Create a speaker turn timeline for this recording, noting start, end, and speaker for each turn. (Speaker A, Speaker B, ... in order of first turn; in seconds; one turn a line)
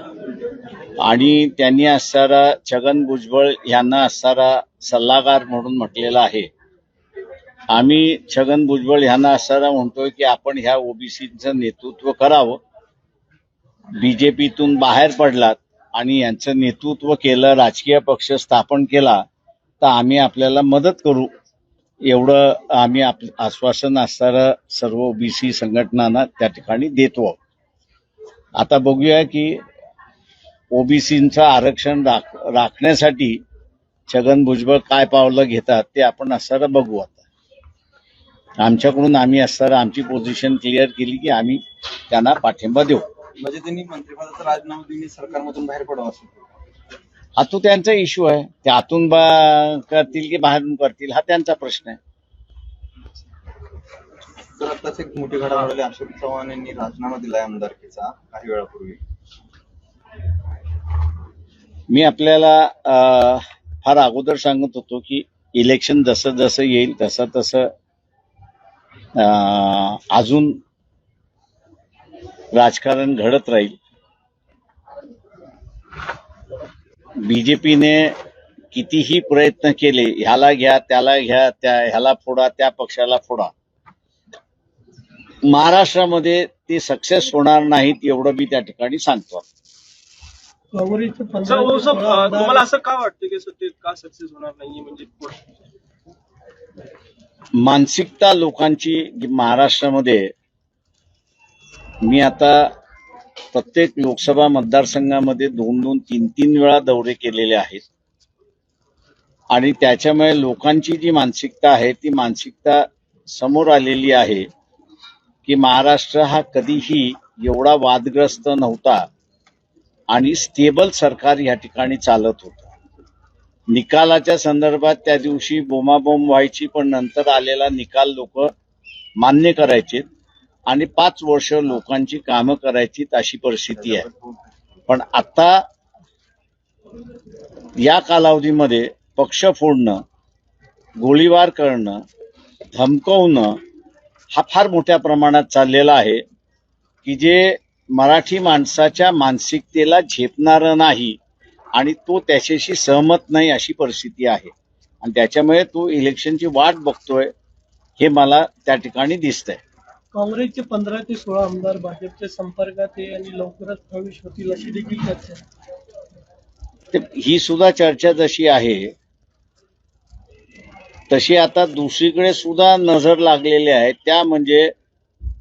Speaker A: 1.0-6.5
Speaker A: 7.7-12.6
Speaker A: 14.0-19.2
Speaker A: 19.8-21.3
Speaker A: 22.1-27.4
Speaker A: 28.6-29.6
Speaker A: 30.7-33.4
Speaker A: 34.1-37.2
Speaker A: 38.6-43.0
Speaker B: 43.4-46.5
Speaker A: 47.4-52.0
Speaker B: 54.5-59.0
Speaker A: 61.9-67.7
Speaker A: 69.2-70.6
Speaker A: 72.5-73.8
Speaker A: 77.2-78.2
Speaker A: 78.7-83.5
Speaker A: 85.5-89.5
Speaker C: 90.7-92.7
Speaker D: 91.5-95.5
Speaker A: 97.6-100.3
Speaker A: 102.0-102.7
Speaker A: 103.5-107.8
Speaker A: 109.5-114.5
Speaker A: 115.4-119.1
Speaker A: 120.1-122.7
Speaker A: 123.7-128.5
Speaker A: 129.2-130.0
Speaker A: 130.7-134.1
Speaker B: 133.8-134.5
Speaker A: 134.9-135.6
Speaker A: 137.8-140.0
Speaker A: 141.0-142.0
Speaker A: 142.7-143.6
Speaker A: 144.3-146.2
Speaker A: 147.0-151.2
Speaker A: 151.8-154.5
Speaker A: 155.0-157.3
Speaker A: 158.0-159.6
Speaker C: 160.1-165.4
Speaker A: 166.9-168.9
Speaker A: 171.1-174.7